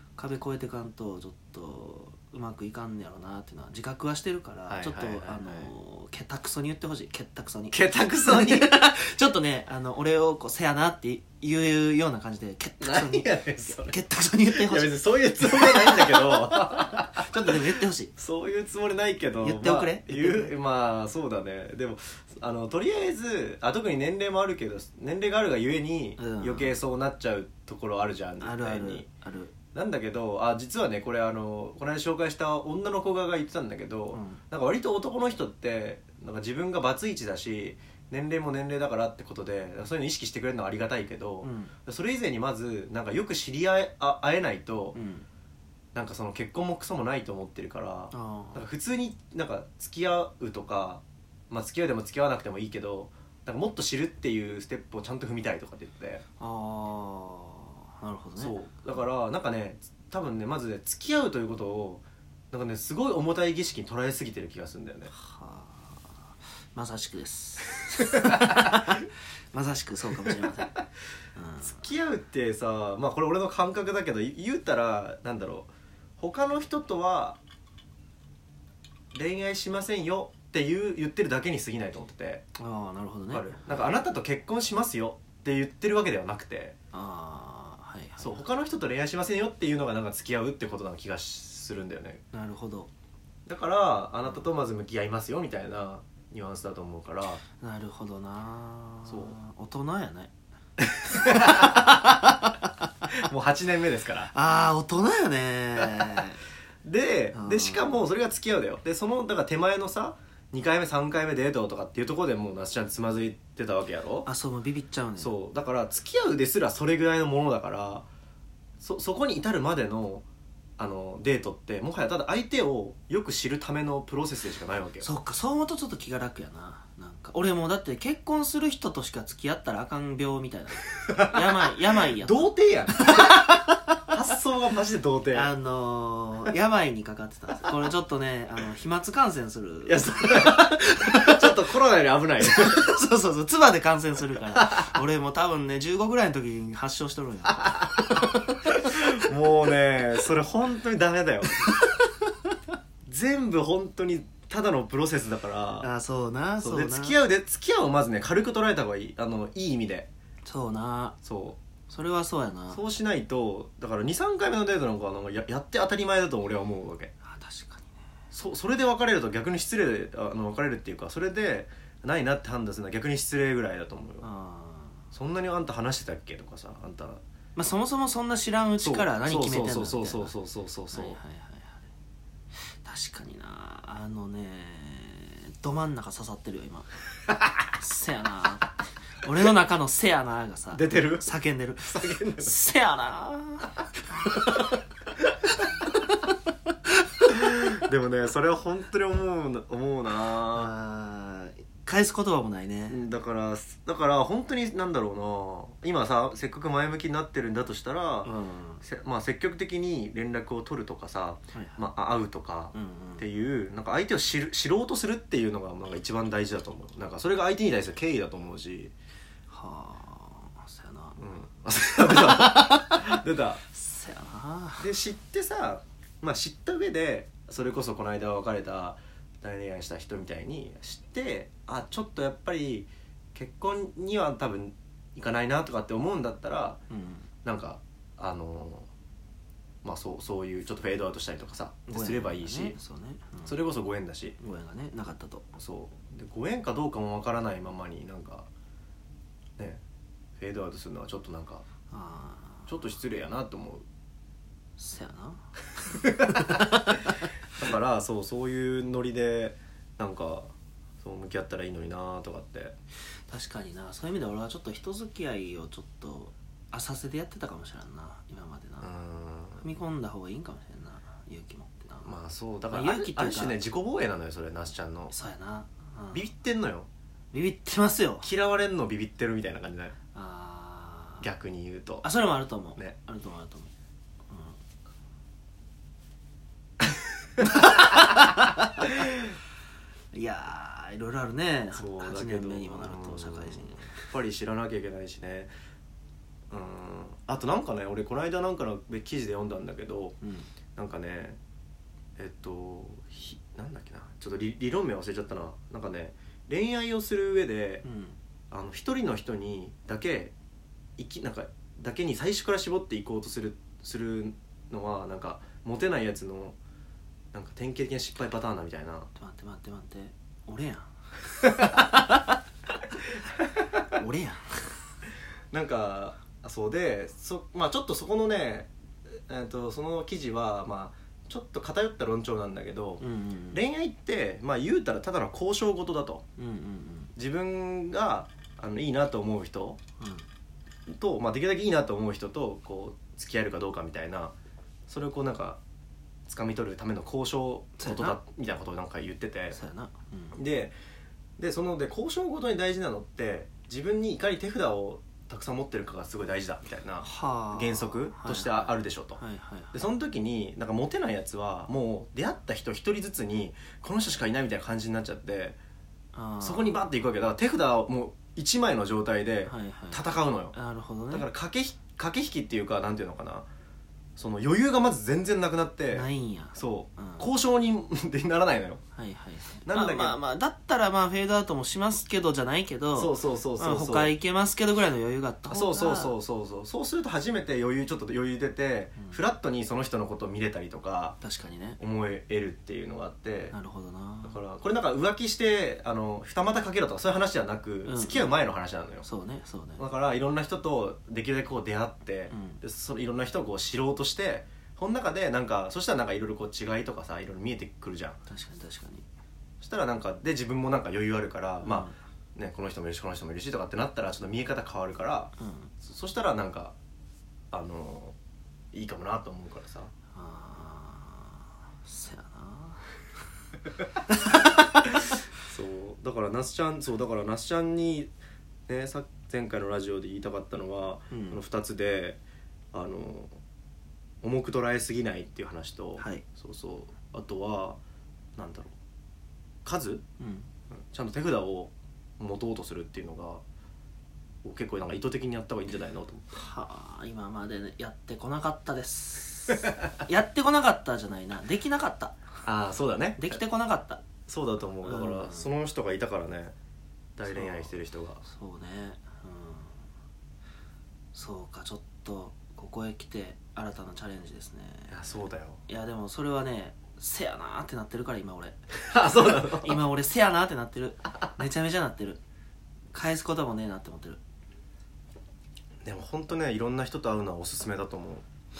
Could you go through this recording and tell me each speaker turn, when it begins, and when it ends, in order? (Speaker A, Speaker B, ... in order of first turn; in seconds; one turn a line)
Speaker A: 0.2-18.1
Speaker B: 4.7-5.7
Speaker B: 7.7-8.8
Speaker B: 12.8-17.6
Speaker B: 18.2-29.1
Speaker A: 19.4-20.5
Speaker A: 26.2-26.8
Speaker A: 28.4-29.5
Speaker B: 29.7-45.0
Speaker A: 34.1-34.4
Speaker A: 41.4-41.7
Speaker A: 44.9-45.3
Speaker B: 46.0-56.2
Speaker A: 48.1-48.6
Speaker A: 56.4-58.6
Speaker B: 58.4-65.1
Speaker A: 65.1-70.8
Speaker B: 68.1-68.7
Speaker A: 71.3-71.8
Speaker B: 71.6-77.4
Speaker B: 79.1-82.4
Speaker A: 82.6-83.5
Speaker B: 83.3-86.8
Speaker A: 86.9-88.5
Speaker B: 88.2-92.2
Speaker A: 92.3-92.9
Speaker B: 93.5-97.4
Speaker A: 97.6-100.3
Speaker B: 99.1-99.4
Speaker B: 100.8-102.1
Speaker A: 101.1-102.7
Speaker B: 103.0-104.3
Speaker A: 104.3-106.4
Speaker B: 106.8-114.3
Speaker A: 107.3-108.0
Speaker A: 114.3-115.3
Speaker B: 115.2-118.1
Speaker B: 118.8-120.2
Speaker B: 120.8-125.1
Speaker A: 125.0-132.5
Speaker B: 131.0-135.5
Speaker A: 133.0-133.8
Speaker A: 135.3-141.5
Speaker B: 139.9-142.9
Speaker A: 142.4-148.4
Speaker B: 147.6-151.7
Speaker A: 151.7-151.9
Speaker B: 153.1-155.9
Speaker A: 155.8-157.2
Speaker B: 156.6-160.1
Speaker A: 160.4-161.2
Speaker B: 161.2-161.6
Speaker A: 161.9-162.8
Speaker B: 162.7-167.1
Speaker A: 167.2-167.9
Speaker B: 168.3-174.3
Speaker A: 174.2-175.0
Speaker B: 175.1-177.2
Speaker A: 177.6-180.3
Speaker B: 178.8-181.2
Speaker A: 180.9-181.9
Speaker A: 182.6-186.9
Speaker A: 187.8-193.8
Speaker B: 190.7-192.6
Speaker B: 197.3-200.7
Speaker A: 200.5-203.0
Speaker B: 202.9-218.9
Speaker A: 208.2-208.8
Speaker A: 211.5-211.8
Speaker A: 212.7-213.3
Speaker A: 219.5-221.2
Speaker B: 221.2-223.6
Speaker A: 222.1-224.9
Speaker B: 224.8-236.8
Speaker A: 236.9-237.3
Speaker B: 237.4-238.9
Speaker B: 239.8-242.8
Speaker A: 241.9-243.6
Speaker B: 243.4-244.4
Speaker A: 244.4-245.5
Speaker B: 245.6-248.5
Speaker B: 250.4-251.7
Speaker A: 251.9-252.7
Speaker B: 252.7-253.8
Speaker A: 254.8-255.5
Speaker B: 255.9-256.7
Speaker A: 256.2-257.1
Speaker B: 257.5-262.8
Speaker A: 263.3-268.9
Speaker B: 268.8-269.6
Speaker A: 269.6-272.2
Speaker B: 272.0-275.1
Speaker A: 272.7-273.6
Speaker A: 275.1-276.2
Speaker B: 276.1-276.9
Speaker A: 277.3-278.3
Speaker B: 278.2-280.0
Speaker A: 280.1-281.3
Speaker B: 281.2-282.1
Speaker A: 282.0-283.7
Speaker A: 284.3-284.6
Speaker A: 287.4-288.9
Speaker A: 290.1-294.1
Speaker B: 291.7-295.5
Speaker B: 296.5-300.2
Speaker A: 300.2-300.5
Speaker B: 300.8-301.4
Speaker B: 302.2-307.9
Speaker A: 307.8-308.2
Speaker B: 308.5-310.3
Speaker B: 311.0-316.6
Speaker B: 317.3-319.1
Speaker A: 319.2-320.9
Speaker A: 323.9-324.8
Speaker B: 325.5-328.7
Speaker B: 329.3-336.2
Speaker A: 333.0-333.6
Speaker A: 336.4-337.1
Speaker B: 337.2-339.8
Speaker A: 340.0-340.3
Speaker B: 340.9-344.4
Speaker B: 344.9-345.6
Speaker B: 346.3-349.6
Speaker A: 347.8-348.2
Speaker A: 349.5-350.4
Speaker B: 350.3-350.8
Speaker B: 351.4-359.2
Speaker A: 357.0-359.9
Speaker B: 359.7-365.6
Speaker A: 366.1-366.8
Speaker B: 366.4-370.6
Speaker A: 369.5-371.3
Speaker B: 371.1-373.5
Speaker B: 374.2-378.8
Speaker A: 375.9-377.3
Speaker A: 379.0-386.1
Speaker B: 379.6-380.2
Speaker B: 383.0-384.1
Speaker B: 385.5-391.2
Speaker A: 391.2-391.8
Speaker B: 391.8-393.6
Speaker A: 393.5-394.4
Speaker B: 394.2-399.1
Speaker A: 397.9-398.4
Speaker A: 399.0-399.8
Speaker B: 399.8-408.2
Speaker A: 402.3-402.6
Speaker A: 408.3-409.1
Speaker B: 409.6-416.8
Speaker A: 411.6-411.9
Speaker A: 415.4-415.7
Speaker B: 417.5-418.2
Speaker B: 418.7-419.9
Speaker A: 420.1-422.9
Speaker A: 424.1-424.9
Speaker B: 425.4-428.1
Speaker B: 428.7-432.2
Speaker A: 431.1-431.4
Speaker B: 432.7-433.4
Speaker B: 434.2-437.8
Speaker A: 436.0-436.2
Speaker B: 438.4-438.7
Speaker B: 439.6-440.0
Speaker A: 440.2-440.5
Speaker B: 440.7-443.4
Speaker B: 444.4-446.3
Speaker A: 446.3-452.2
Speaker B: 452.4-453.4
Speaker A: 453.2-454.0
Speaker B: 454.3-456.5
Speaker A: 454.8-455.5
Speaker B: 457.2-458.2
Speaker A: 457.3-457.7
Speaker A: 458.2-459.8
Speaker A: 461.1-465.0
Speaker B: 464.9-465.6
Speaker A: 465.7-472.2
Speaker B: 468.9-469.8
Speaker A: 472.9-474.2
Speaker B: 475.8-478.2